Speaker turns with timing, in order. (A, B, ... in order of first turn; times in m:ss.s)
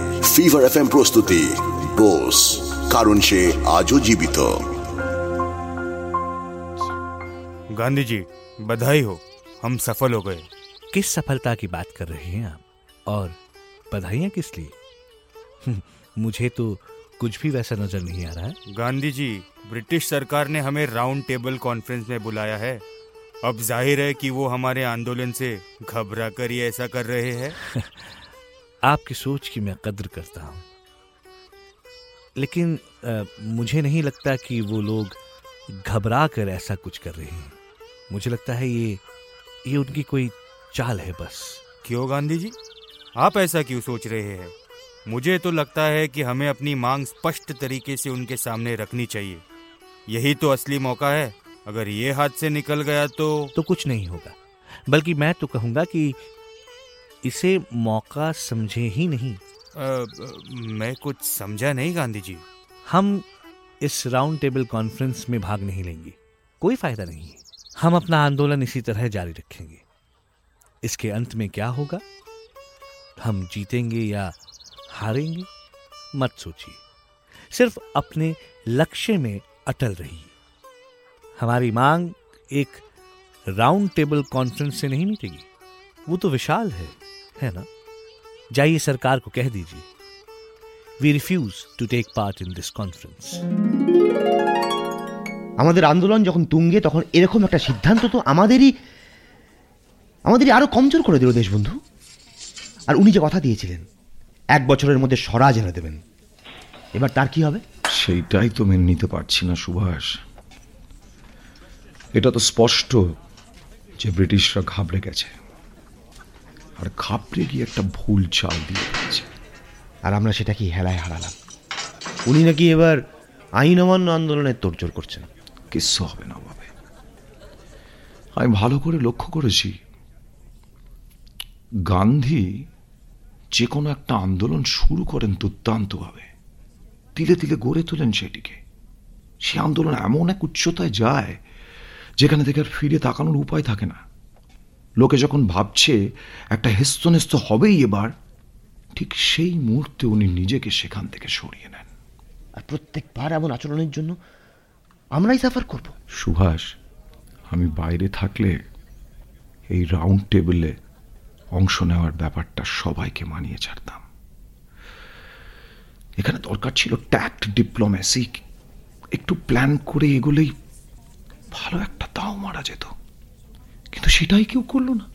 0:00.3-0:04.5 A
0:07.8-0:10.5 B
0:10.9-0:13.4 C
0:13.9-0:14.8 C
0:15.6-0:18.6 C
0:18.7-0:22.8 B
0:23.4-0:27.6 B
0:27.8-0:28.1 C
0:28.8-0:30.6 C
0:32.4-0:37.6 C
0:38.1-0:39.0 C
0:39.7-0:41.6 C
0:41.8-0:42.6 B
0:43.2-0:44.5 B
0:45.1-0:49.4 B
0:50.1-0:53.5 B
0:53.6-0:56.2 C
0:57.2-0:59.4 C
0:59.8-1:02.4 B
1:02.8-1:03.2 C
1:03.8-1:09.8 C
1:10.8-1:12.0 C
1:13.2-1:14.4 C
1:14.9-1:15.5 C
1:16.1-1:16.8 C
1:17.5-1:20.3 C
1:21.4-1:22.8 C
1:23.5-1:25.5 C
1:26.1-1:27.7 C
1:28.5-1:29.9 C
1:31.0-1:33.4 C
1:35.6-1:38.7 D
1:40.3-1:41.8 D
1:42.9-1:43.8 D
1:44.6-1:46.0 D
1:47.0-1:47.6 D
1:47.9-1:50.2 E
1:52.2-1:53.0 E
1:54.0-1:55.4 E
1:56.8-1:59.3 E
2:00.1-2:01.4 D
2:02.3-2:03.0 D
2:03.6-2:05.2 D
2:05.7-2:06.7 E
2:08.4-2:09.7 E
2:11.9-2:12.4 E
2:13.5-2:16.3 E
2:17.2-2:18.6 E
2:19.4-2:21.4 E
2:22.2-2:24.0 E
2:25.0-2:26.0 E
2:26.5-2:28.1 E
2:29.0-2:31.9 E
2:32.6-2:34.2 D
2:35.2-2:35.9 D
2:36.1-2:36.7 E
2:37.5-2:38.6 E
2:39.7-2:40.8 E
2:41.6-2:44.0 E
2:46.2-2:48.4 E
2:49.1-2:50.5 E
2:51.5-2:52.9 E
2:53.9-2:55.1 E